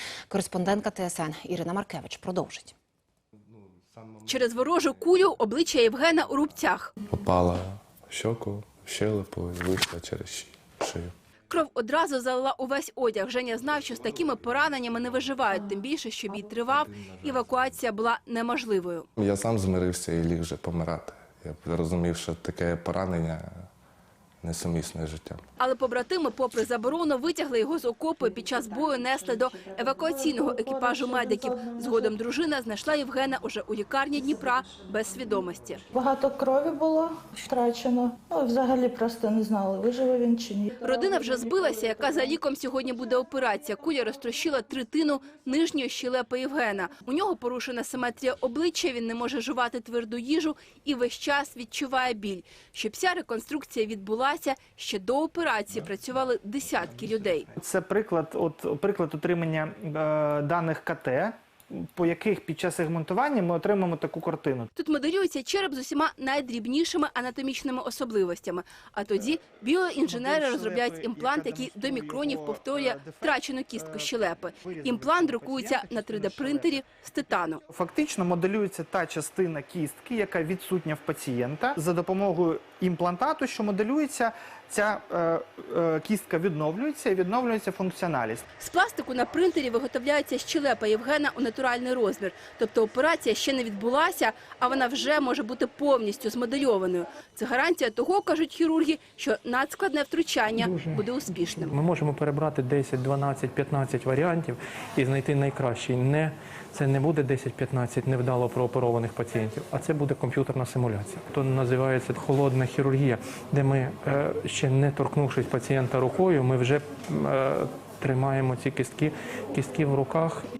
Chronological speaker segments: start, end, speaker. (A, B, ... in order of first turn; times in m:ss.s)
0:00.3-0:02.7 A
0:04.2-0:06.9 B
0:07.1-0:11.1 C
0:11.5-0:19.1 B
0:19.2-0:23.6 C
0:24.4-0:25.4 C
0:25.6-0:35.8 B
0:29.3-0:32.1 D
0:35.9-0:42.3 D
0:40.8-0:57.5 B
0:57.6-1:04.7 E
1:04.8-1:17.6 B
1:10.0-1:16.8 E
1:17.7-1:28.4 E
1:28.6-1:41.7 B
1:40.6-1:41.0 F
1:41.6-2:00.4 F